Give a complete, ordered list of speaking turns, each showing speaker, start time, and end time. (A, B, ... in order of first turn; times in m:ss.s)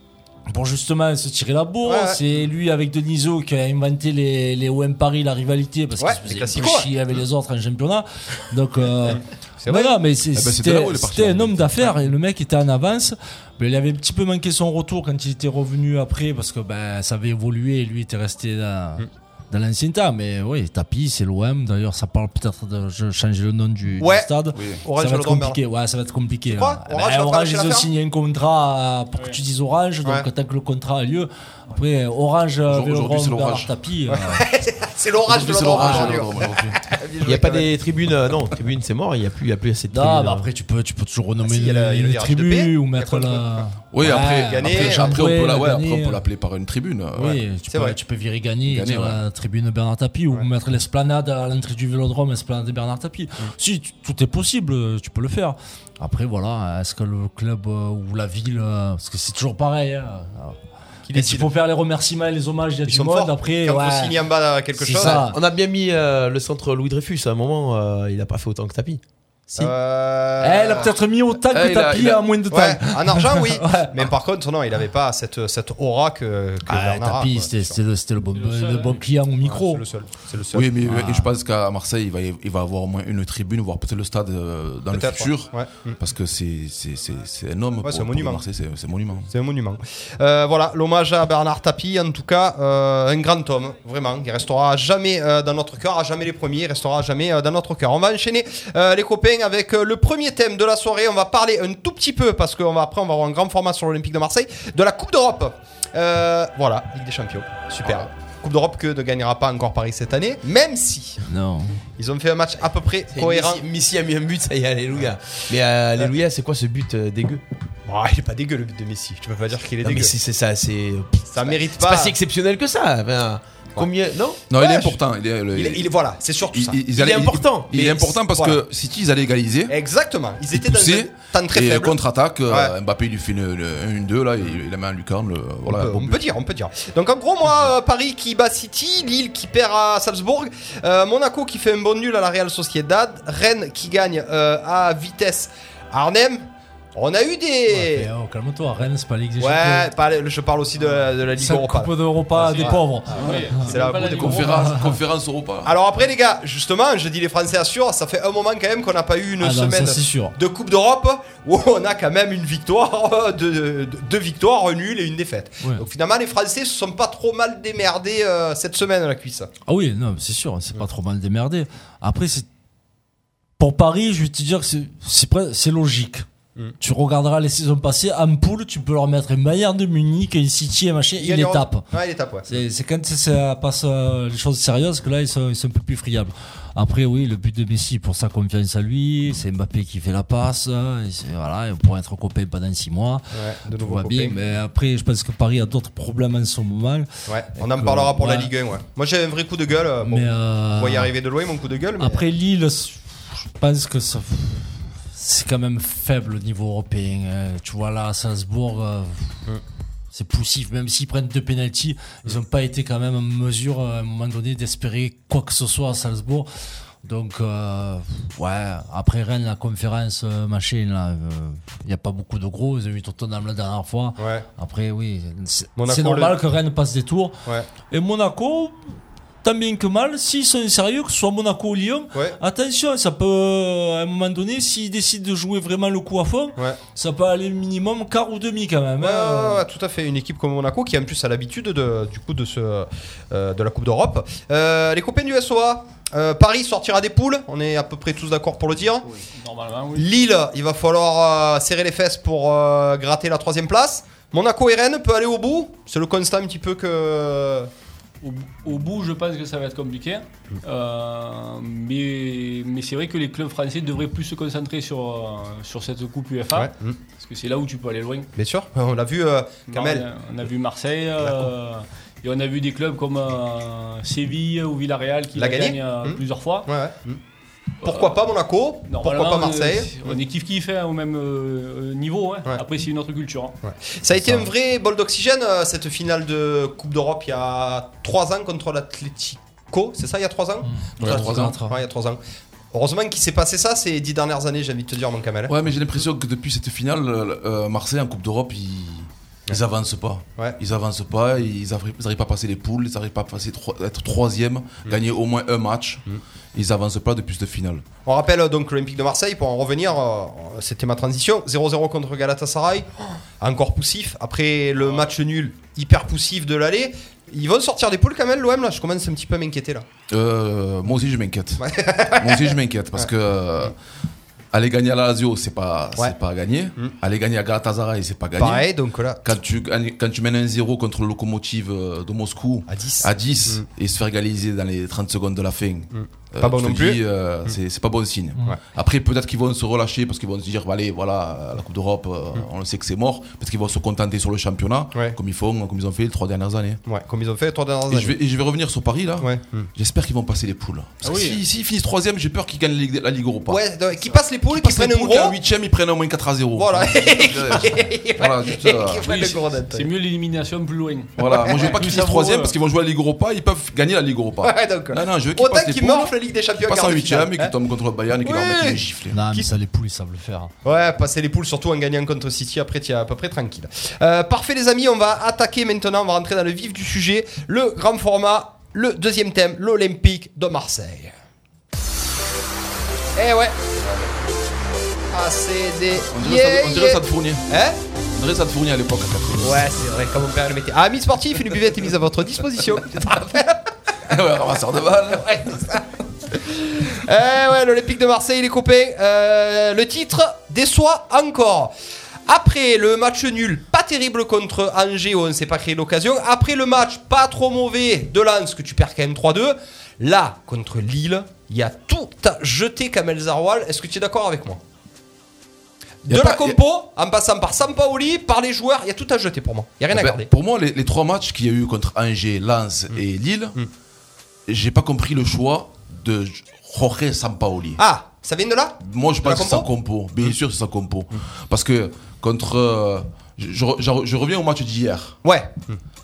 0:00.5-0:34.4 A
0:01.8-0:02.2 B
0:06.0-0:06.9 B
0:09.1-0:10.0 B
0:10.3-0:12.0 C
0:24.0-0:24.3 B
0:24.5-0:24.8 C
0:24.8-0:25.6 B
0:26.5-0:27.9 B
0:32.7-0:33.7 C
0:34.1-0:37.7 B
0:35.3-0:36.8 C
0:35.8-0:36.2 A
0:37.2-0:40.5 D
0:39.9-0:46.2 A
0:41.4-0:45.2 B
0:43.9-0:47.4 C
0:47.2-1:00.6 A
0:47.7-0:48.0 B
0:48.7-0:49.2 C
1:01.1-1:01.5 B
1:01.1-1:04.2 A
1:02.9-1:05.2 B
1:04.8-1:05.4 A
1:05.0-1:09.0 D
1:09.5-1:10.9 B
1:10.4-1:14.1 A
1:11.5-1:12.3 C
1:12.5-1:17.8 B
1:16.7-1:19.8 A
1:18.3-1:19.0 E
1:19.4-1:20.7 B
1:20.5-1:29.3 C
1:20.8-1:21.3 A
1:24.9-1:26.0 B
1:27.8-1:28.4 B
1:29.3-1:51.2 B
1:51.3-1:51.8 A
1:52.0-1:53.6 B
1:53.1-1:57.4 D
1:57.9-2:00.2 B
1:59.8-2:04.4 D
2:01.3-2:02.2 B
2:04.5-2:05.9 C
2:04.5-2:05.0 B
2:05.6-2:06.9 B
2:06.5-2:09.8 C
2:06.9-2:08.2 D
2:08.3-2:08.6 B
2:09.7-2:12.0 B
2:10.5-2:16.2 C
2:12.5-2:12.7 B
2:15.7-2:28.1 B
2:27.7-2:29.9 A
2:29.4-2:34.5 B
2:31.4-2:33.8 A
2:32.4-2:34.7 E
2:34.0-2:35.8 C
2:34.4-2:35.0 A
2:35.6-2:49.5 B
2:39.4-2:40.4 A
2:49.7-2:52.5 A
2:53.6-2:56.2 A
2:56.8-3:01.9 A
3:01.2-3:02.6 B
3:02.5-3:18.5 A
3:13.3-3:14.4 B
3:17.3-3:22.2 B
3:20.0-3:21.1 A
3:22.0-3:29.4 A
3:30.1-3:36.5 A
3:37.0-3:47.4 A
3:44.2-3:44.5 B
3:45.8-3:46.4 B
3:47.9-3:59.6 A
3:59.0-4:09.1 B
4:09.2-4:10.2 E
4:10.0-4:17.7 B
4:18.2-4:28.3 E
4:26.6-4:27.0 B
4:28.4-4:30.0 B
4:29.7-4:36.7 E
4:31.2-4:31.5 B
4:35.4-4:37.2 B
4:37.8-4:38.2 E
4:37.8-4:40.2 B
4:38.9-4:43.6 E
4:43.6-4:52.2 B
4:44.2-4:44.5 A
4:50.6-4:51.8 A
4:51.0-4:51.6 C
4:52.7-4:55.6 B
4:55.5-5:07.8 C
5:08.0-5:19.9 B
5:20.1-5:23.8 C
5:21.6-5:23.1 B
5:24.5-5:28.7 C
5:28.4-5:29.3 B
5:29.2-5:46.8 C
5:32.7-5:33.6 B
5:35.9-5:37.6 B
5:46.9-5:48.2 B
5:47.9-5:53.6 C
5:49.2-5:49.7 B
5:51.0-5:51.4 E
5:53.5-5:55.4 B
5:54.5-5:59.1 C
5:56.6-5:59.9 B
5:59.0-6:02.5 E
6:01.2-6:09.2 C
6:01.3-6:01.8 B
6:04.4-6:07.5 B
6:08.2-6:09.5 B
6:09.1-6:10.5 A
6:10.6-6:21.1 B
6:23.2-6:23.6 B
6:25.1-6:27.8 B
6:26.1-6:27.5 C
6:28.1-6:29.7 C
6:29.4-6:33.7 B
6:34.1-6:35.6 C
6:35.1-6:41.7 B
6:42.3-6:54.6 B
6:56.0-7:00.3 B
6:56.1-6:56.6 C
6:59.9-7:03.6 C
7:04.5-7:07.8 C
7:07.8-7:09.7 B
7:08.8-7:15.2 C
7:15.2-7:15.8 B